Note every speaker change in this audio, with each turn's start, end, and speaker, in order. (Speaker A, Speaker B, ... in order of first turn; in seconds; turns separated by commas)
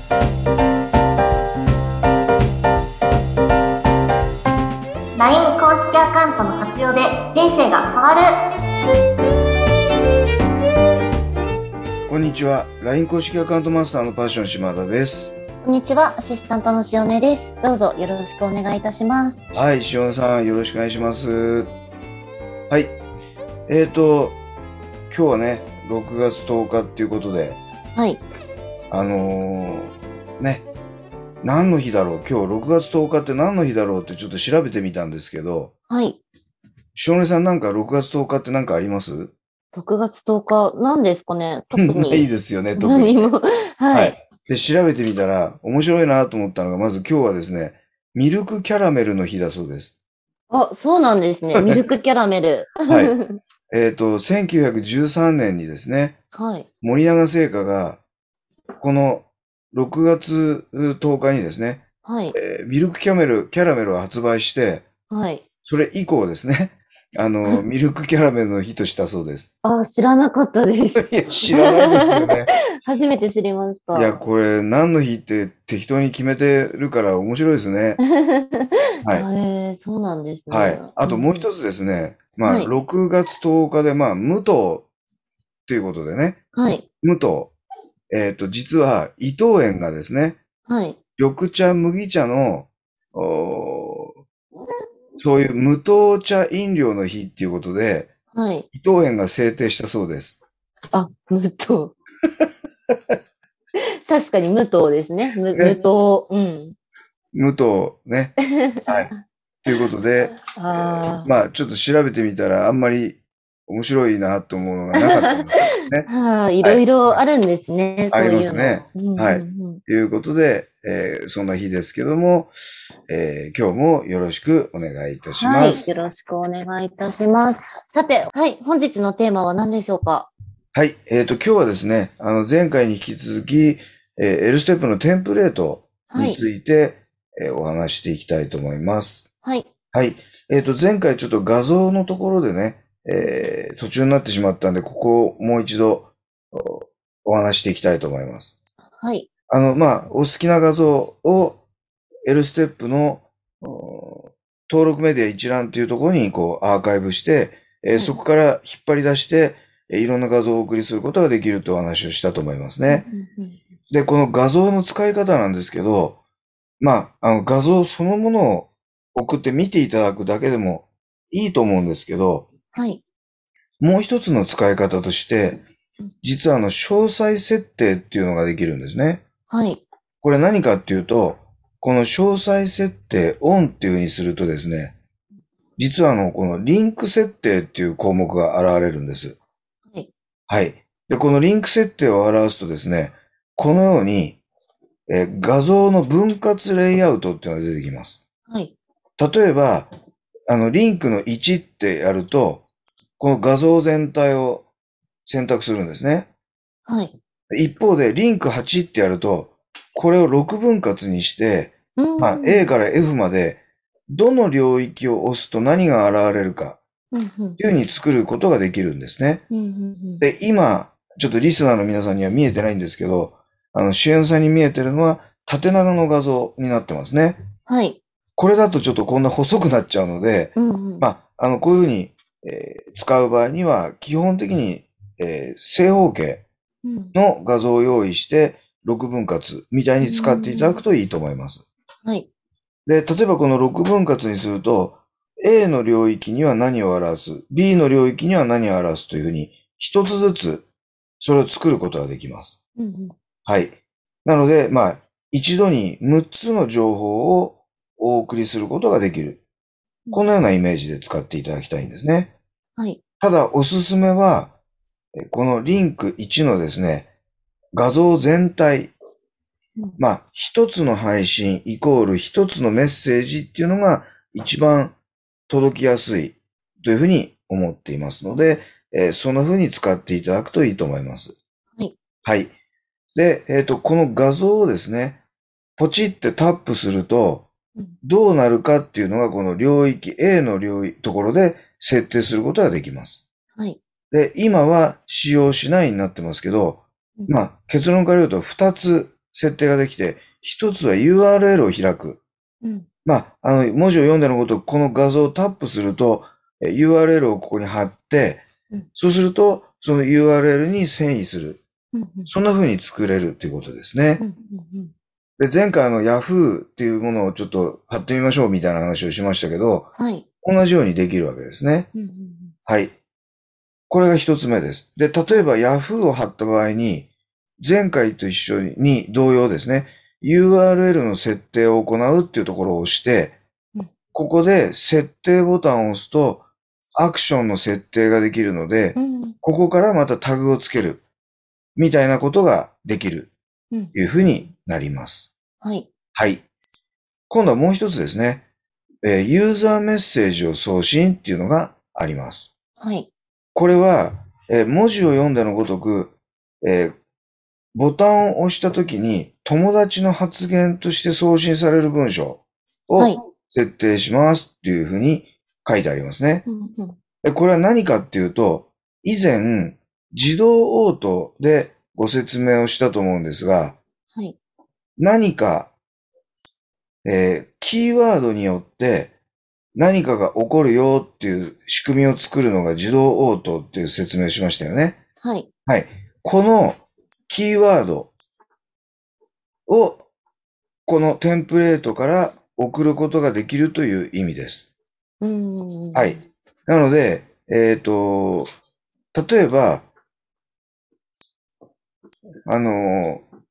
Speaker A: 5.2-8.3, Speaker B: 12.1-15.3, Speaker C: 15.6-19.4, Speaker B: 19.5-21.7, Speaker B: 22.7-23.0, Speaker B: 23.7-24.4, Speaker B: 25.1-27.6, Speaker C: 27.9-28.2, Speaker B: 28.9-30.6, Speaker B: 31.4-35.7, Speaker C: 35.9-36.2, Speaker B: 36.9-39.3, Speaker C: 39.7-44.2, Speaker B: 41.7-43.3, Speaker B: 43.9-49.9, Speaker C: 50.5-53.4, Speaker B: 52.9-53.1, Speaker B: 53.7-56.2, Speaker C: 56.3-56.7, Speaker B: 56.8-58.0, Speaker B: 58.8-64.8, Speaker C: 62.0-62.4, Speaker C: 65.1-65.4, Speaker B: 65.7-69.5, Speaker C: 69.6-74.2, Speaker B: 71.0-72.5, Speaker B: 73.9-78.0, Speaker C: 78.1-81.4, Speaker B: 80.5-84.9, Speaker C: 82.4-82.7, Speaker B: 85.7-86.4, Speaker C: 86.5-86.9, Speaker B: 87.0-87.5, Speaker B: 88.1-90.4, Speaker C: 90.7-91.0, Speaker B: 91.2-94.1, Speaker B: 95.2-98.1, Speaker C: 98.3-98.7, Speaker B: 98.7-100.4, Speaker C: 100.9-101.9, Speaker C: 104.1-106.8, Speaker B: 105.5-105.8, Speaker B: 107.3-109.1, Speaker B: 109.6-116.1, Speaker C: 110.4-111.3, Speaker C: 115.0-115.4, Speaker C: 116.1-119.8, Speaker B: 116.6-117.2, Speaker B: 118.1-122.5, Speaker B: 123.1-125.9, Speaker C: 125.4-130.3, Speaker B: 130.7-139.3, Speaker C: 136.1-136.4, Speaker C: 139.4-139.7, Speaker B: 139.9-148.5, Speaker C: 143.2-143.5, Speaker C: 149.0-149.3, Speaker B: 149.5-151.6, Speaker B: 152.2-163.1, Speaker C: 162.9-163.6, Speaker B: 163.9-166.2, Speaker B: 166.8-172.5, Speaker C: 172.7-173.0, Speaker B: 173.8-175.6, Speaker B: 176.2-179.2, Speaker C: 179.5-179.8, Speaker B: 180.2-184.9, Speaker B: 185.8-189.3, Speaker B: 190.5-194.4, Speaker B: 195.1-198.2, Speaker C: 198.5-198.7, Speaker B: 199.2-199.9, Speaker B: 200.5-202.7, Speaker B: 203.2-204.7, Speaker B: 205.2-206.3, Speaker C: 206.8-207.1, Speaker B: 207.5-216.8, Speaker C: 211.9-212.7, Speaker C: 217.1-217.6, Speaker B: 217.6-219.4, Speaker C: 219.5-220.2, Speaker B: 220.2-227.4, Speaker C: 227.7-228.0, Speaker B: 228.4-236.4, Speaker C: 230.6-231.1, Speaker C: 236.8-237.1, Speaker B: 237.1-241.6, Speaker C: 240.0-240.8, Speaker B: 242.8-250.7, Speaker B: 251.2-252.6, Speaker C: 252.8-253.1, Speaker B: 253.4-259.4, Speaker B: 260.1-262.3, Speaker B: 263.2-264.6, Speaker B: 265.2-267.1, Speaker B: 267.8-268.9, Speaker B: 270.0-274.9, Speaker B: 275.5-281.3, Speaker B: 282.2-282.5, Speaker B: 283.1-285.2, Speaker B: 285.8-287.5, Speaker B: 288.0-293.2, Speaker C: 293.5-293.8, Speaker B: 294.1-302.2, Speaker B: 303.0-308.4, Speaker B: 308.9-311.6, Speaker C: 311.9-312.3, Speaker B: 312.3-314.2, Speaker C: 314.2-314.9, Speaker B: 315.4-319.9, Speaker C: 319.9-320.2, Speaker B: 320.4-321.9, Speaker C: 321.9-322.5, Speaker B: 322.6-322.9, Speaker B: 323.9-327.1, Speaker B: 327.6-333.4, Speaker B: 334.1-336.4, Speaker B: 337.0-341.0, Speaker C: 338.9-339.4, Speaker B: 341.8-343.3, Speaker B: 343.9-345.3, Speaker C: 345.6-345.9, Speaker B: 346.1-346.4, Speaker B: 347.3-348.4, Speaker B: 349.0-352.5, Speaker C: 352.8-353.1, Speaker B: 353.5-356.9, Speaker B: 357.7-366.4, Speaker C: 366.4-367.0, Speaker B: 367.2-373.8, Speaker B: 375.0-375.7, Speaker B: 377.0-379.1, Speaker B: 379.7-385.0, Speaker C: 385.2-385.5, Speaker B: 385.6-388.1, Speaker B: 389.7-390.0, Speaker B: 390.9-394.7, Speaker C: 395.2-396.2, Speaker B: 395.9-398.5, Speaker B: 399.1-399.9, Speaker B: 402.5-403.2